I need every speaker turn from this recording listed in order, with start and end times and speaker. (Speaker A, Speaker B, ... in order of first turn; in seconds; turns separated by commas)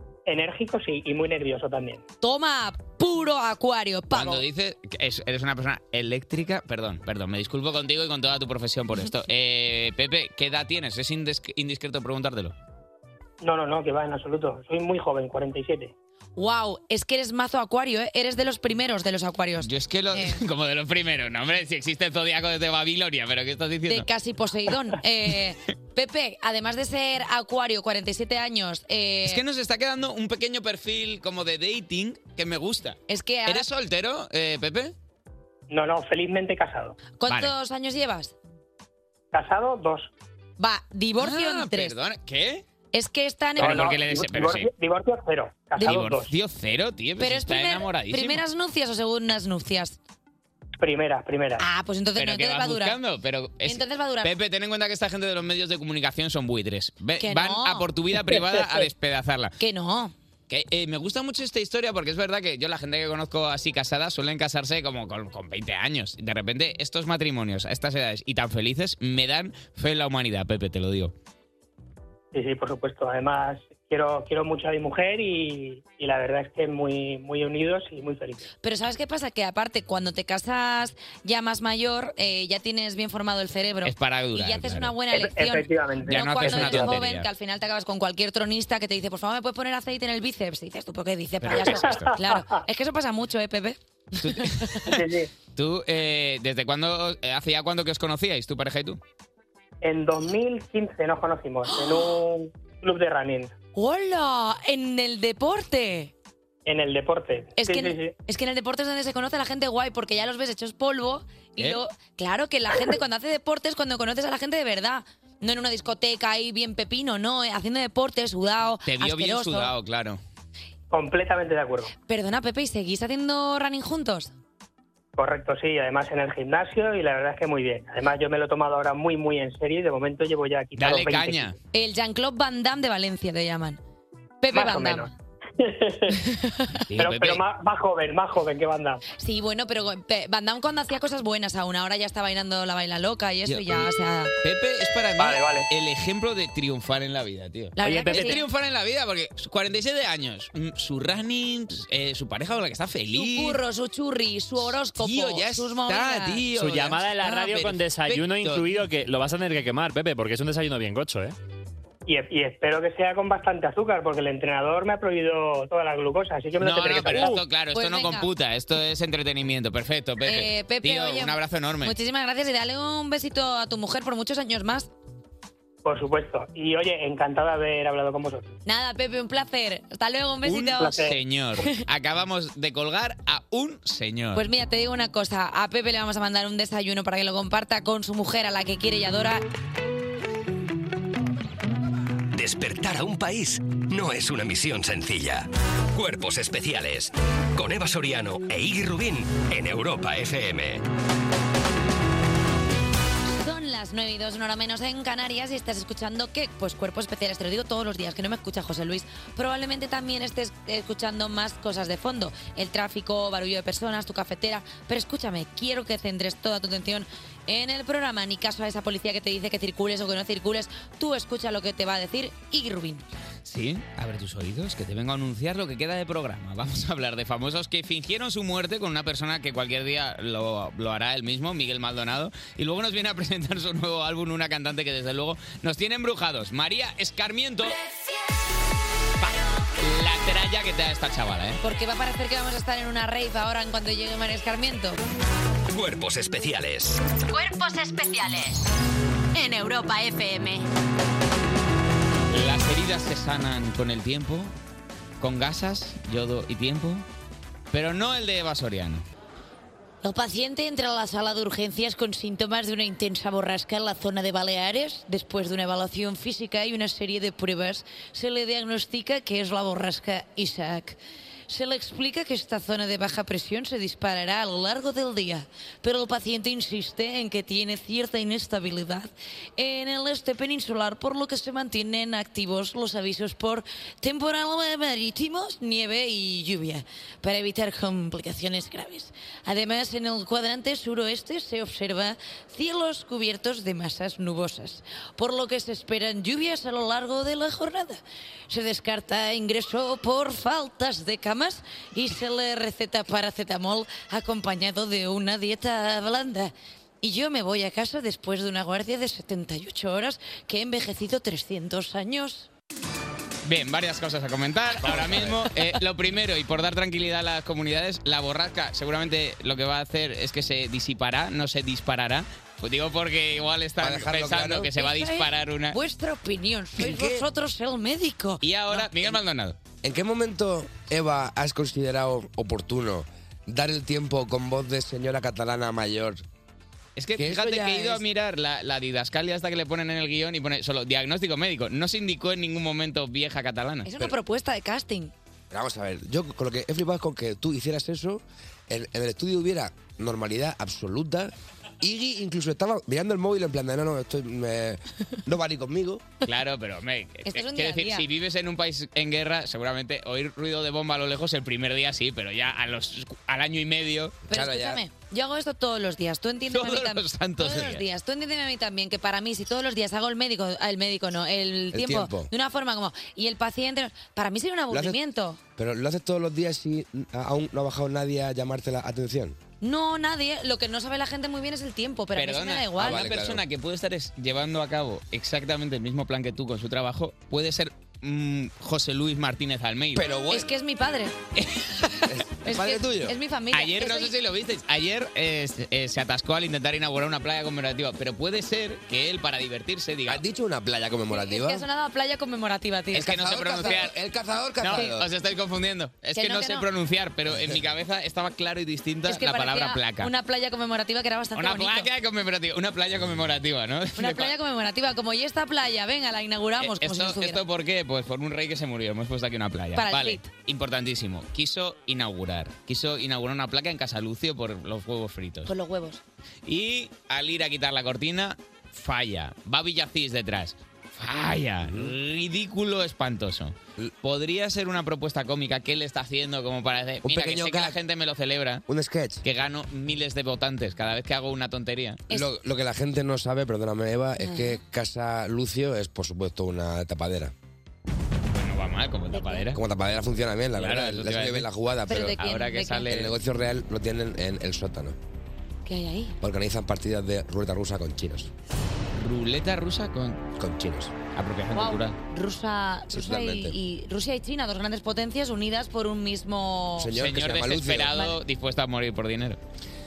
Speaker A: 0.3-2.0, Speaker B: 2.2-4.5, Speaker C: 4.1-12.6, Speaker A: 13.4-15.9, Speaker B: 16.4-20.4, Speaker C: 19.6-24.1, Speaker B: 23.9-29.4, Speaker C: 29.2-34.9, Speaker B: 33.1-33.7, Speaker A: 35.7-37.0, Speaker B: 37.2-38.3, Speaker C: 37.3-37.5, Speaker A: 39.3-40.1, Speaker B: 40.6-42.0, Speaker C: 41.2-42.6, Speaker B: 42.9-43.9, Speaker C: 43.6-44.7, Speaker A: 43.6-46.3, Speaker B: 45.8-46.0, Speaker C: 45.8-48.4, Speaker B: 47.2-50.0, Speaker A: 50.8-51.6, Speaker B: 51.6-53.0, Speaker C: 52.2-59.6, Speaker B: 53.6-54.3, Speaker B: 57.2-58.9, Speaker B: 59.6-60.1, Speaker C: 60.5-71.1, Speaker A: 72.3-78.5, Speaker B: 78.6-93.8, Speaker C: 83.8-84.9, Speaker A: 85.1-86.9, Speaker C: 86.1-87.3, Speaker C: 91.4-92.2, Speaker A: 91.8-92.6, Speaker C: 94.2-94.9, Speaker B: 94.3-94.9, Speaker A: 94.9-95.3, Speaker C: 95.6-99.0, Speaker A: 99.8-103.5, Speaker B: 101.7-102.1, Speaker B: 103.7-106.1, Speaker A: 106.7-108.2, Speaker B: 107.6-119.7, Speaker C: 118.9-120.2, Speaker A: 120.9-121.9, Speaker B: 122.0-124.3, Speaker A: 125.2-131.5, Speaker C: 130.8-131.6, Speaker B: 131.7-133.8, Speaker B: 134.4-135.1, Speaker A: 134.5-136.2, Speaker B: 136.2-136.8, Speaker C: 136.9-137.4, Speaker A: 137.0-139.0, Speaker B: 139.2-144.3, Speaker C: 143.5-143.9, Speaker C: 144.4-153.6, Speaker A: 145.2-145.7, Speaker B: 147.8-148.4, Speaker D: 147.8-148.4, Speaker B: 153.1-156.4, Speaker C: 154.6-158.8, Speaker D: 156.5-161.3, Speaker A: 162.1-167.4, Speaker C: 166.6-171.9, Speaker B: 167.7-168.3, Speaker B: 170.2-174.9, Speaker A: 175.8-178.6, Speaker B: 178.6-181.0, Speaker C: 180.4-184.4, Speaker A: 180.8-181.2, Speaker B: 184.3-189.4, Speaker E: 192.3-200.8, Speaker B: 203.3-223.1, Speaker C: 223.4-237.8, Speaker C: 239.2-241.6, Speaker B: 241.6-245.0, Speaker E: 245.7-247.0, Speaker F: 247.3-248.6, Speaker F: 249.3-250.6, Speaker C: 252.3-254.5, Speaker C: 255.2-257.1, Speaker C: 257.7-259.1, Speaker B: 260.0-271.0, Speaker B: 271.5-312.5, Speaker C: 313.4-325.8, Speaker G: 314.8-315.4, Speaker G: 323.8-324.7, Speaker B: 324.7-328.9, Speaker G: 326.8-327.3, Speaker C: 328.4-329.6, Speaker G: 329.8-336.2, Speaker C: 337.0-344.1, Speaker G: 337.2-338.0, Speaker B: 343.9-345.1, Speaker G: 345.5-356.0, Speaker C: 356.2-364.2, Speaker B: 357.3-358.1, Speaker G: 364.3-364.8, Speaker B: 364.3-375.4, Speaker C: 366.5-367.8, Speaker G: 371.7-372.3, Speaker G: 374.7-375.0, Speaker G: 375.6-379.4, Speaker B: 379.6-383.1, Speaker C: 382.1-390.1, Speaker G: 382.8-383.4, Speaker G: 389.9-390.5, Speaker B: 390.3-391.1, Speaker C: 391.4-391.9, Speaker G: 392.1-393.1, Speaker B: 392.4-394.1, Speaker C: 393.5-400.2, Speaker G: 400.1-401.7, Speaker B: 401.1-403.8, Speaker C: 402.9-403.9, Speaker G: 403.0-405.1, Speaker C: 404.6-410.1, Speaker B: 404.7-405.0, Speaker B: 406.1-406.7, Speaker B: 409.1-411.9, Speaker C: 411.4-414.3, Speaker B: 414.0-417.4, Speaker C: 416.6-425.5, Speaker B: 419.8-420.3, Speaker B: 425.4-426.0, Speaker C: 426.4-438.6, Speaker G: 437.0-437.8, Speaker G: 438.7-439.2, Speaker C: 439.2-442.0, Speaker G: 442.1-447.3, Speaker B: 444.2-444.6, Speaker C: 448.3-449.6, Speaker B: 449.1-449.5, Speaker G: 449.5-452.2, Speaker C: 450.6-451.5, Speaker B: 451.9-452.9, Speaker C: 452.2-453.1, Speaker G: 452.9-455.0, Speaker B: 455.7-456.2, Speaker G: 456.2-458.3, Speaker C: 458.9-460.2, Speaker G: 460.4-460.9, Speaker C: 461.1-462.0, Speaker B: 461.5-466.9, Speaker G: 462.9-463.6, Speaker G: 466.8-468.0, Speaker C: 466.9-469.4